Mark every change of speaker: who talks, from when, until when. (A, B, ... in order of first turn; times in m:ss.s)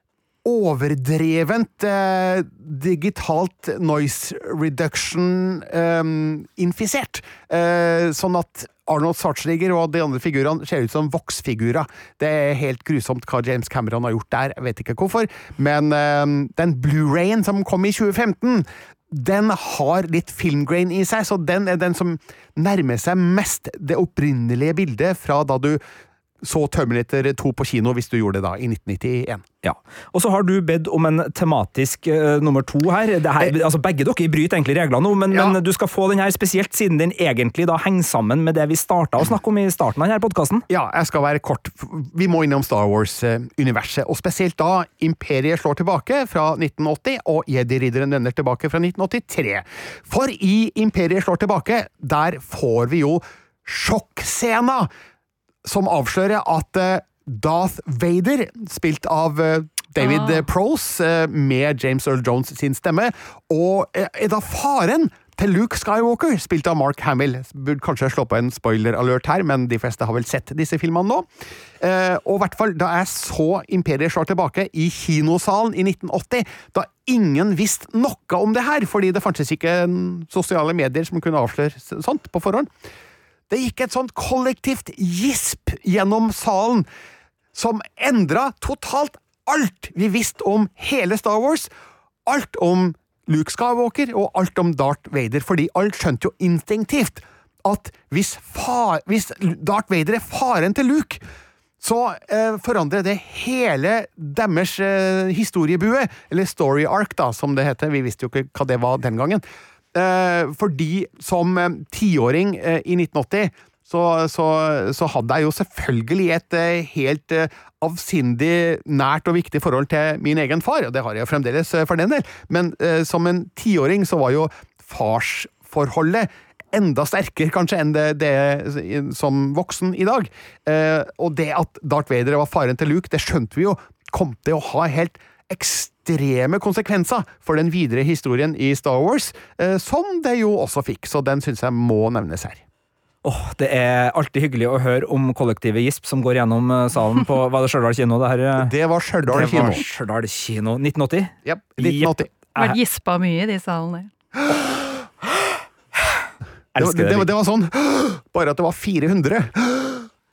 0:00.4-0:25.8 A
0:26.4-0:29.4 A
0:29.6-0:40.6 B
0:35.3-0:35.6 A
0:40.7-0:54.9 A
0:55.6-1:11.3 A
1:00.0-1:00.4 C
1:11.8-1:22.7 A
1:23.5-1:26.8 A
1:27.5-1:31.7 A
1:32.2-1:41.2 A
1:41.8-1:49.4 A
1:49.9-2:22.6 A
2:23.2-2:28.7 B
2:28.6-2:29.8 A
2:29.3-2:32.8 B
2:31.4-2:32.3 A
2:32.6-2:34.1 C
2:36.7-2:37.3 B
2:36.8-2:40.1 A